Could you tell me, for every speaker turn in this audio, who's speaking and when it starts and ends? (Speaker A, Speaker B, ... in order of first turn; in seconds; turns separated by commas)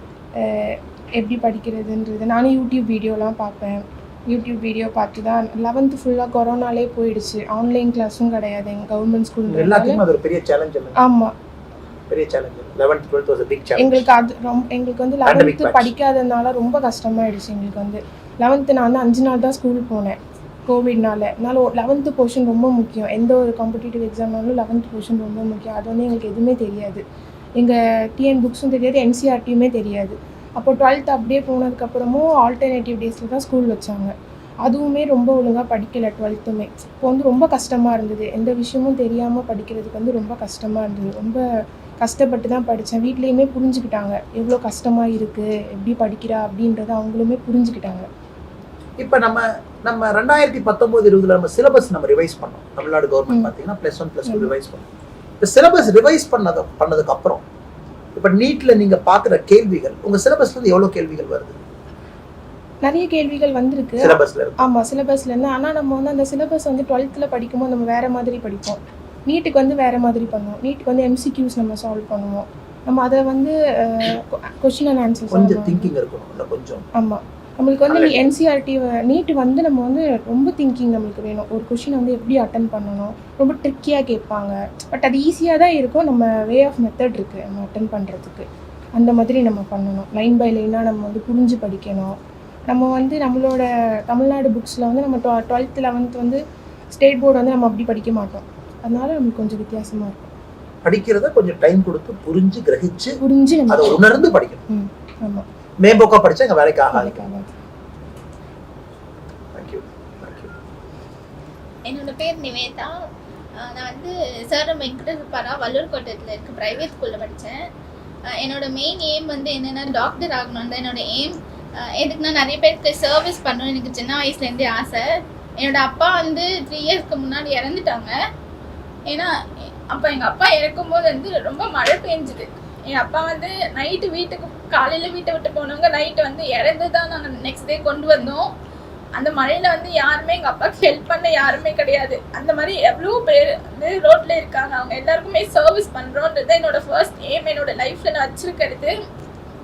Speaker A: 0.4-10.0, Speaker B: 9.5-11.0, Speaker A: 11.0-11.3, Speaker B: 12.1-14.0, Speaker A: 13.8-27.0, Speaker B: 15.2-15.9, Speaker A: 27.6-34.1, Speaker A: 34.6-41.4, Speaker A: 42.0-48.0, Speaker B: 49.0-54.9, Speaker A: 54.2-54.5, Speaker B: 55.4-57.4, Speaker B: 58.1-61.6, Speaker A: 62.8-75.9, Speaker B: 64.0-64.6, Speaker B: 75.3-76.8, Speaker A: 77.0-92.1, Speaker B: 77.9-78.2, Speaker A: 92.7-96.4, Speaker A: 96.9-100.3, Speaker B: 100.8-103.2, Speaker A: 103.2-104.0, Speaker B: 103.7-104.6, Speaker A: 104.7-105.4, Speaker B: 105.8-107.3, Speaker A: 106.9-107.5, Speaker B: 109.5-110.5, Speaker C: 111.8-112.9, Speaker C: 113.5-117.6, Speaker C: 118.4-125.1, Speaker C: 125.6-128.1, Speaker C: 129.1-138.5, Speaker C: 139.2-148.9